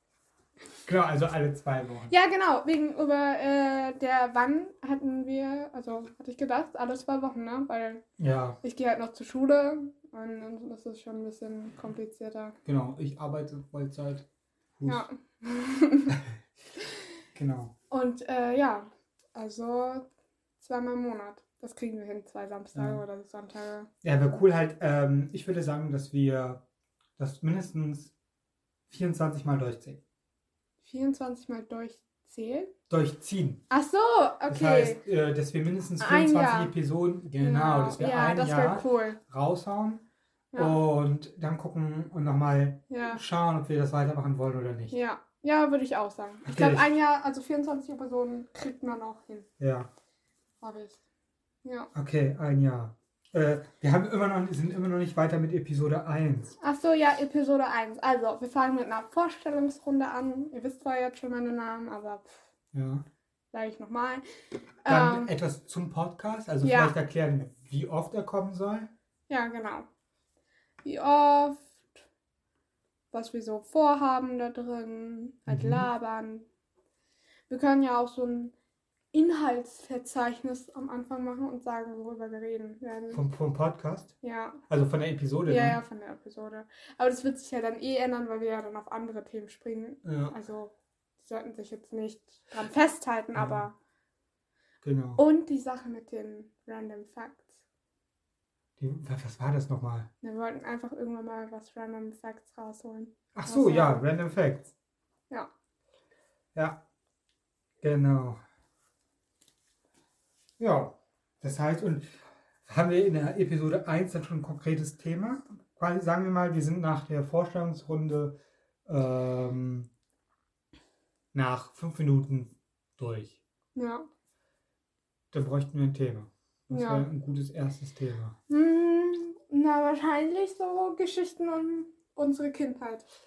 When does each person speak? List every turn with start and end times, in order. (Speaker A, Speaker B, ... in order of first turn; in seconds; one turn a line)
Speaker A: 0.8-2.1
Speaker B: 2.1-8.0
Speaker A: 8.2-8.6
Speaker B: 8.6-12.6
Speaker A: 12.6-14.2
Speaker A: 14.8-15.1
Speaker B: 14.9-16.1
Speaker A: 17.3-17.7
Speaker B: 17.9-20.1
Speaker B: 20.6-23.9
Speaker A: 22.7-23.0
Speaker A: 24.0-26.6
Speaker A: 27.2-28.1
Speaker A: 28.9-30.0
Speaker B: 30.8-32.7
Speaker A: 32.9-33.6
Speaker B: 33.7-35.0
Speaker A: 34.5-40.0
Speaker B: 36.0-36.7
Speaker B: 37.4-39.2
Speaker B: 40.5-40.8
Speaker A: 40.5-44.9
Speaker B: 42.9-43.2
Speaker B: 44.9-49.5
Speaker A: 46.4-46.9
Speaker A: 49.6-49.9
Speaker B: 50.6-51.0
Speaker B: 51.6-51.9
Speaker A: 51.9-56.6
Speaker B: 56.6-62.4
Speaker A: 62.7-63.0
Speaker B: 63.5-64.2
Speaker B: 64.8-65.3
Speaker A: 64.8-68.9
Speaker B: 66.6-66.9
Speaker B: 69.3-69.8
Speaker B: 70.8-71.7
Speaker B: 73.1-76.5
Speaker A: 75.5-75.9
Speaker B: 77.5-78.5
Speaker B: 79.1-83.2
Speaker A: 83.1-84.1
Speaker B: 84.2-84.6
Speaker A: 84.7-85.8
Speaker B: 85.5-93.7
Speaker A: 90.0-90.3
Speaker A: 93.3-93.7
Speaker A: 94.8-95.2
Speaker B: 95.2-97.4
Speaker A: 98.8-100.1
Speaker B: 100.2-104.0
Speaker A: 103.3-104.7
Speaker A: 106.5-106.8
Speaker A: 107.8-108.4
Speaker A: 110.6-112.1
Speaker A: 112.7-119.9
Speaker A: 121.3-123.4
Speaker B: 123.7-124.0
Speaker A: 125.3-128.3
Speaker B: 126.7-127.0
Speaker B: 128.5-133.0